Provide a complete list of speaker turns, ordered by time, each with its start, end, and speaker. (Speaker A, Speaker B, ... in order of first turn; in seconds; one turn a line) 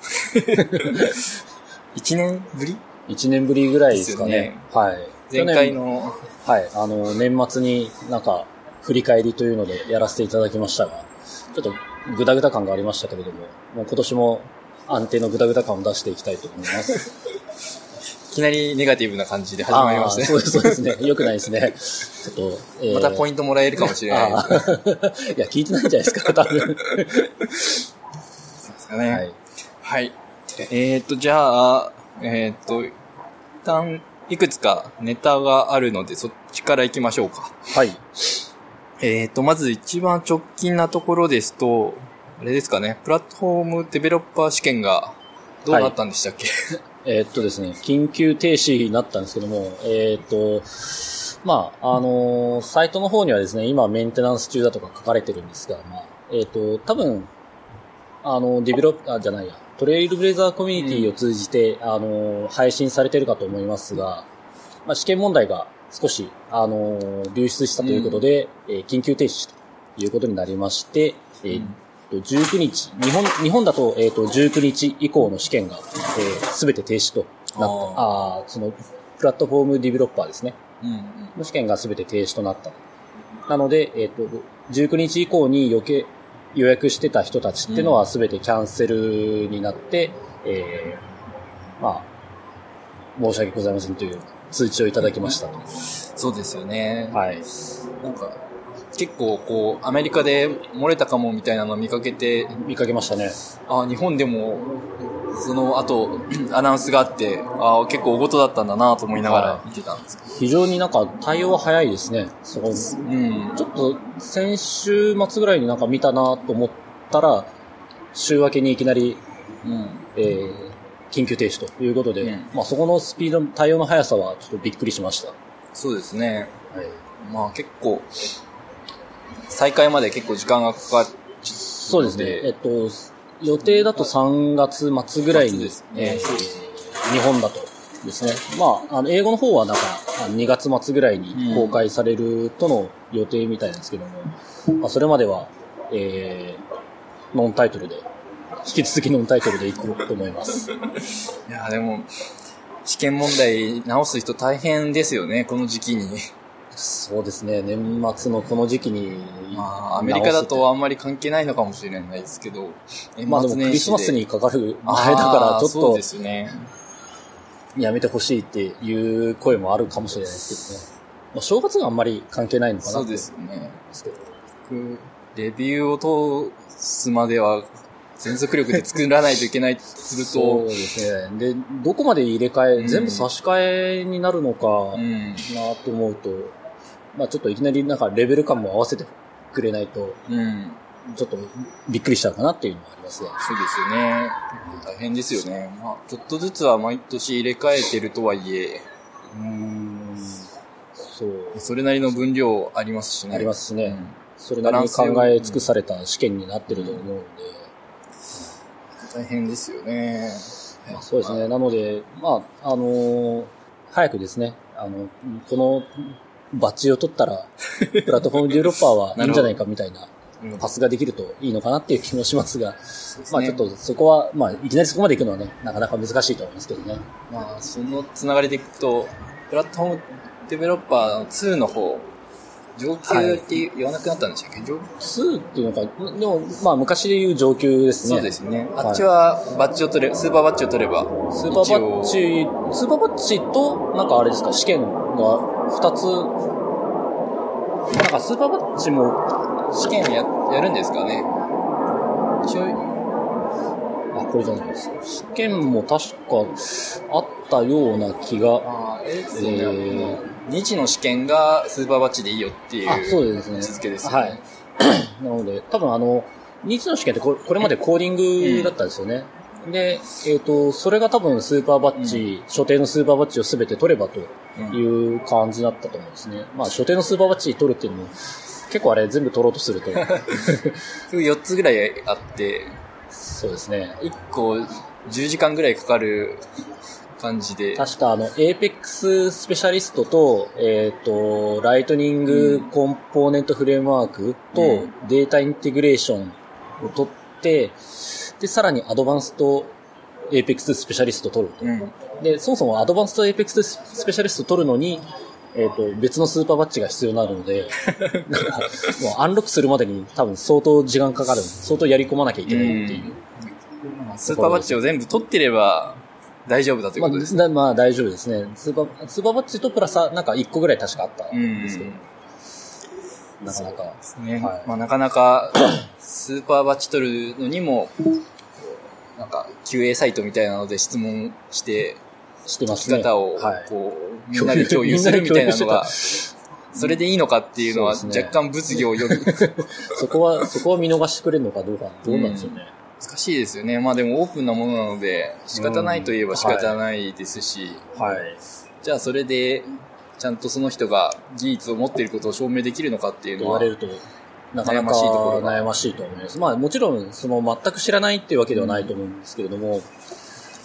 Speaker A: 0.2-1.3
Speaker B: 0.5-1.2
Speaker A: 1.9-2.8
Speaker B: 3.1-5.8
Speaker A: 3.9-4.6
Speaker A: 5.3-6.3
Speaker B: 6.4-17.1
Speaker A: 18.3-20.9
Speaker B: 19.7-23.3
Speaker A: 22.9-24.7
Speaker B: 23.8-27.8
Speaker A: 28.6-29.2
Speaker B: 29.1-29.4
Speaker A: 29.8-32.9
Speaker A: 33.6-37.6
Speaker B: 37.7-38.0
Speaker A: 39.0-46.5
Speaker B: 45.7-46.0
Speaker B: 47.0-57.3
Speaker B: 58.2-64.3
Speaker A: 60.8-61.1
Speaker B: 64.8-80.6
Speaker A: 67.8-68.2
Speaker A: 71.5-71.8
Speaker A: 77.5-78.1
Speaker A: 80.8-81.3
Speaker B: 81.4-82.8
Speaker B: 83.5-91.0
Speaker A: 87.7-88.0
Speaker B: 91.8-92.1
Speaker B: 93.2-95.7
Speaker A: 95.9-97.2
Speaker B: 97.1-97.5
Speaker A: 98.0-98.4
Speaker A: 98.9-102.6
Speaker B: 102.5-103.4
Speaker A: 103.7-110.2
Speaker B: 109.2-109.6
Speaker B: 110.3-113.0
Speaker A: 113.0-113.6
Speaker B: 113.6-117.5
Speaker B: 118.1-119.2
Speaker A: 119.6-120.1
Speaker B: 120.2-125.4
Speaker A: 122.2-122.5
Speaker A: 125.8-126.5
Speaker B: 126.7-127.0
Speaker A: 127.2-128.1
Speaker A: 129.5-132.5
Speaker B: 131.8-146.6
Speaker A: 133.7-134.0
Speaker A: 135.3-136.6
Speaker A: 141.3-141.8
Speaker B: 147.3-148.1
Speaker B: 148.6-150.7
Speaker A: 151.5-152.1
Speaker A: 152.8-156.3
Speaker B: 156.7-160.7
Speaker A: 159.5-164.2
Speaker B: 163.3-166.0
Speaker A: 164.8-166.7
Speaker B: 167.8-173.3
Speaker A: 172.8-173.8
Speaker B: 173.9-174.2
Speaker A: 174.7-180.7
Speaker B: 180.2-186.5
Speaker A: 182.8-183.3
Speaker A: 184.9-185.5
Speaker B: 187.1-190.2
Speaker A: 190.3-190.8
Speaker B: 191.1-193.4
Speaker A: 193.4-198.9
Speaker B: 199.3-201.7
Speaker A: 201.6-205.7
Speaker B: 203.3-207.7
Speaker A: 206.7-207.0
Speaker A: 209.0-211.5
Speaker B: 210.9-227.1
Speaker A: 219.2-219.6
Speaker A: 220.4-220.7
Speaker A: 223.1-223.7
Speaker A: 227.3-232.1
Speaker A: 232.8-234.9
Speaker B: 233.1-233.5
Speaker B: 235.0-239.0
Speaker A: 238.0-242.2
Speaker B: 241.3-246.3
Speaker B: 247.9-249.2
Speaker A: 249.7-251.3
Speaker A: 252.4-252.8
Speaker B: 254.1-258.7
Speaker A: 258.6-264.4
Speaker B: 259.3-260.2
Speaker B: 262.9-278.2
Speaker A: 268.4-268.8
Speaker A: 272.0-272.3
Speaker B: 278.7-280.8
Speaker A: 280.0-282.8
Speaker B: 283.1-284.0
Speaker A: 284.0-286.4
Speaker A: 287.2-287.9
Speaker B: 287.8-299.7
Speaker A: 292.3-292.7
Speaker A: 294.6-294.9
Speaker B: 300.3-313.2
Speaker A: 301.6-301.9
Speaker A: 307.9-308.9
Speaker A: 312.5-317.4
Speaker B: 314.3-314.8
Speaker B: 317.0-322.0
Speaker A: 321.3-322.0
Speaker B: 323.4-324.7
Speaker A: 323.5-332.0
Speaker B: 332.5-333.7
Speaker A: 332.7-336.2
Speaker B: 334.3-337.0
Speaker A: 336.7-340.4
Speaker B: 337.6-342.7
Speaker A: 342.1-347.9
Speaker B: 345.6-346.8
Speaker B: 347.9-348.4
Speaker A: 348.8-353.7
Speaker B: 353.4-359.9
Speaker A: 354.6-355.7
Speaker A: 358.6-358.9